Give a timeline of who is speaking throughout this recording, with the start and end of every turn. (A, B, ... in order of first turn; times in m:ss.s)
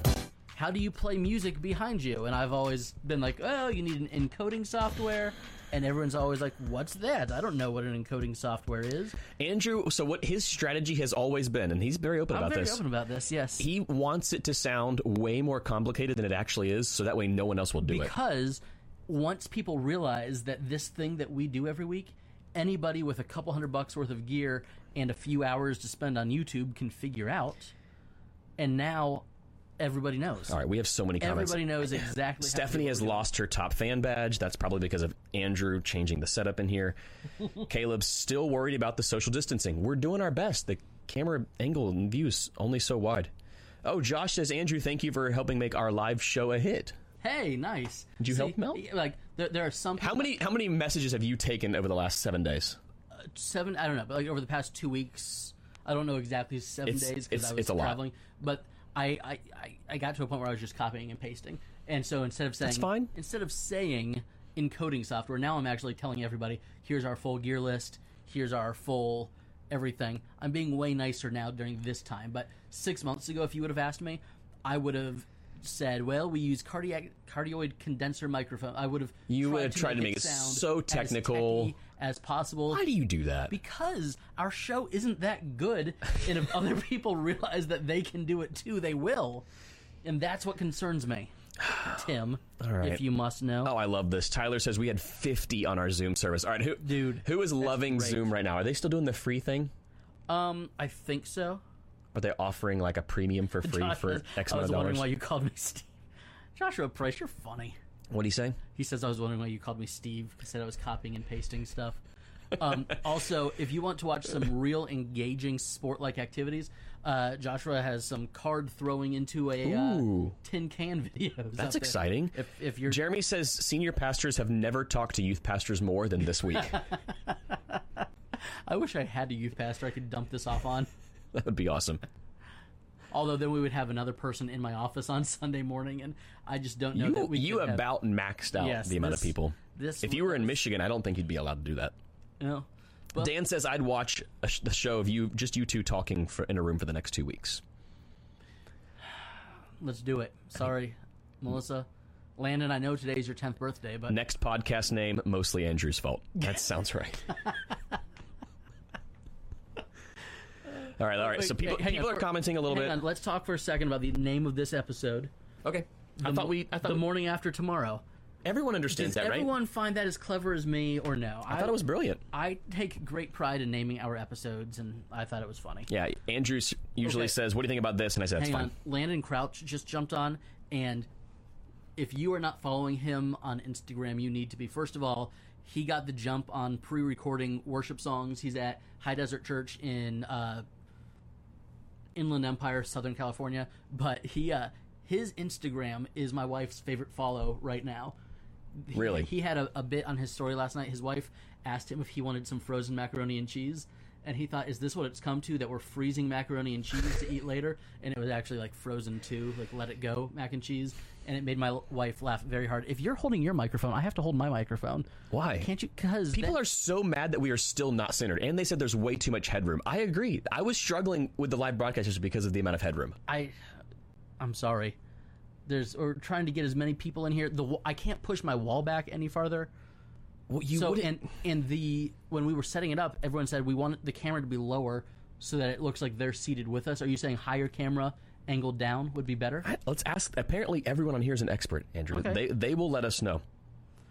0:00.5-0:09.2 A
0:09.4-0:12.8 B
0:12.3-0:13.7 A
0:13.6-0:18.1 B
0:17.8-0:27.7 A
0:28.6-0:29.2 A
0:29.8-0:30.6 A
0:30.5-0:37.0 B
0:31.2-0:33.3 A
0:37.6-0:43.3 B
0:43.8-0:47.0 B
0:47.2-0:50.3 A
0:48.2-0:48.8 B
0:50.0-0:52.8 B
0:53.1-1:22.8 A
0:56.8-0:58.0 B
1:02.6-1:03.1 B
1:19.3-1:21.7 B
1:22.7-1:23.5 B
1:23.5-1:29.4 A
1:30.0-1:33.7 A
1:32.6-1:33.0 B
1:33.6-1:39.7 B
1:36.8-1:38.3 A
1:40.3-1:41.6 A
1:42.1-1:45.1 B
1:43.6-1:46.0 A
1:46.6-1:47.8 A
1:48.1-1:48.6 B
1:48.7-1:52.0 A
1:52.5-2:03.0 A
1:59.6-2:00.3 B
2:01.6-2:06.8 B
2:06.7-2:07.8 A
2:08.7-2:10.9 A
2:11.3-2:12.0 B
2:13.1-2:17.9 A
2:16.9-2:21.9 B
2:18.5-2:20.6 A
2:22.4-2:23.3 A
2:23.2-2:27.6 B
2:29.8-2:34.2 A
2:34.1-2:37.3 B
2:41.0-2:43.0 B
2:41.2-2:45.3 A
2:45.6-2:47.0 B
2:46.2-2:48.0 A
2:48.4-2:49.5 B
2:48.9-2:51.8 A
2:51.5-2:52.2 B
2:52.3-2:55.9 A
2:55.9-2:58.7 B
2:57.0-2:57.3 A
2:58.4-3:01.1 A
3:02.0-3:10.6 A
3:12.1-3:18.2 A
3:18.8-3:36.6 A
3:18.9-3:19.3 B
3:35.3-3:35.7 B
3:36.3-3:43.2 B
3:43.3-3:43.5 A
3:44.4-3:45.0 A
3:45.6-3:49.7 A
3:50.5-3:51.2 B
3:50.7-3:59.7 A
3:59.6-4:03.4 B
4:02.1-4:02.4 A